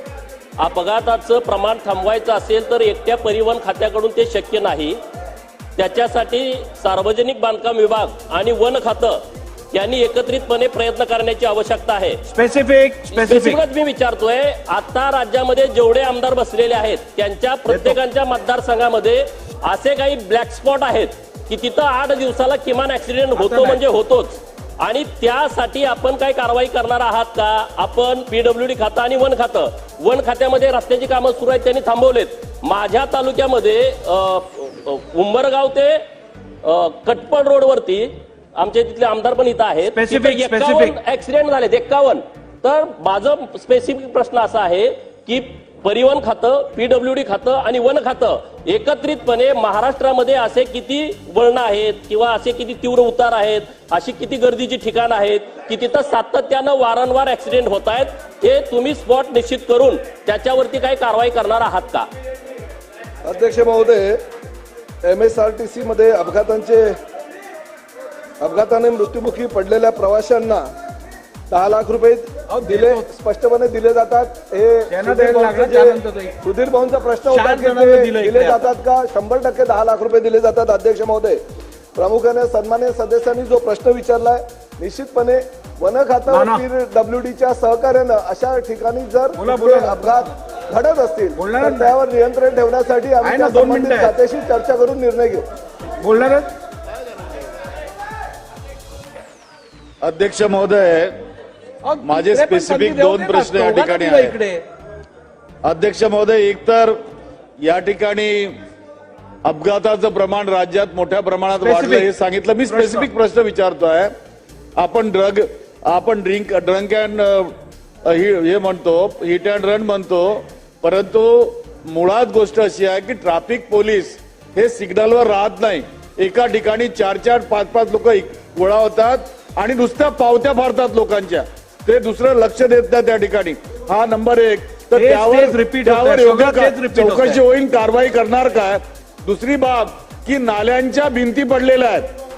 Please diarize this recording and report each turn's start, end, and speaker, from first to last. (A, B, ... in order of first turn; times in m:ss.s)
0:00.6-0:05.0 A
0:05.8-0:12.2 A
0:12.3-0:13.6 B
0:13.1-0:36.0 A
0:17.7-0:18.0 B
0:23.3-0:23.8 B
0:36.6-1:02.1 A
0:39.9-0:41.0 B
1:03.2-1:04.2 C
1:05.0-1:06.9 C
1:08.4-1:10.7 C
1:11.5-1:21.4 C
1:12.5-1:13.1 B
1:14.9-1:16.3 B
1:17.3-1:18.7 B
1:21.9-1:35.4 C
1:26.3-1:26.6 B
1:29.4-1:30.2 B
1:31.4-1:31.9 B
1:33.2-1:34.1 B
1:36.0-1:36.5 B
1:40.0-1:41.2 D
1:41.8-1:44.6 B
1:42.0-1:44.4 D
1:45.6-1:47.0 D
1:47.6-1:48.6 D
1:49.4-1:54.1 D
1:51.6-1:52.1 B
1:52.7-1:53.1 B
1:54.8-1:57.5 D
1:58.0-2:22.1 D
2:14.9-2:17.4 B